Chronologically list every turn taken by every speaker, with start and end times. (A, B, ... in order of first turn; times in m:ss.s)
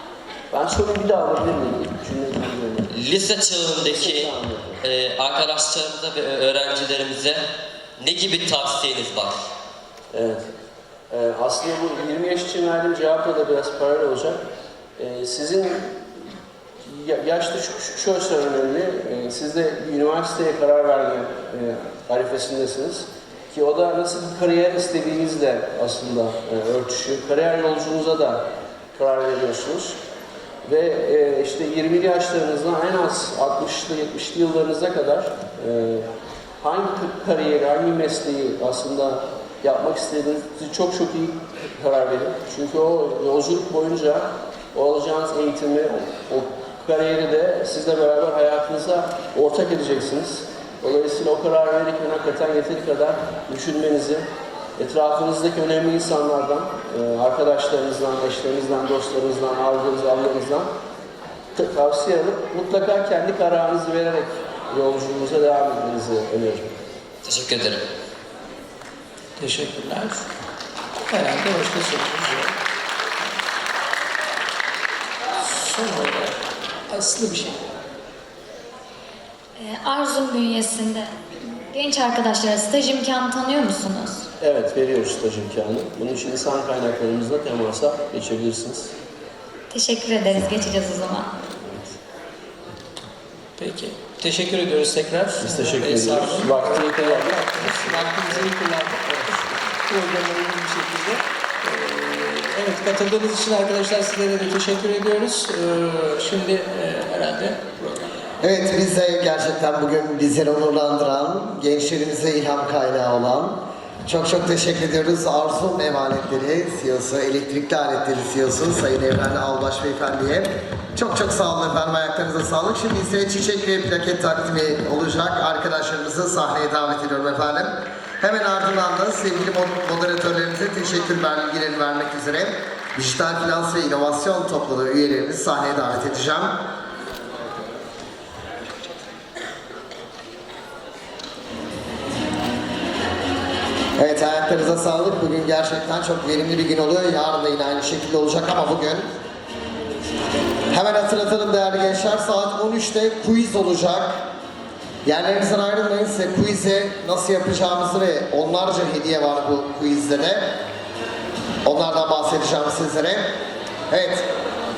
0:00.5-0:02.9 A
0:02.9-0:04.3 B
0:03.9-0:04.8 A
0:04.8-0:07.4 B
0:08.0-0:09.4 B
0:10.1-0:10.5 A
0:11.1-0:14.4 A
0:15.0-0:16.1 A
0:16.8-0:30.0 A
0:30.6-0:36.1 A
0:36.6-0:54.2 A
0:54.8-1:00.7 A
1:01.6-1:06.8 A
1:07.2-1:07.8 B
1:09.4-1:10.2 C
1:11.1-1:12.5 C
1:15.4-1:17.6 C
1:19.6-1:21.1 D
1:21.7-1:24.2 D
1:24.4-1:28.9 A
1:29.7-1:31.3 D
1:31.6-1:31.8 A
1:33.6-1:48.0 C
1:35.4-1:38.4 A
1:48.4-2:16.6 E
2:24.0-2:29.0 E
2:30.7-2:34.2 E
2:35.0-2:40.6 E
2:41.6-2:43.3 E
2:43.9-2:44.2 E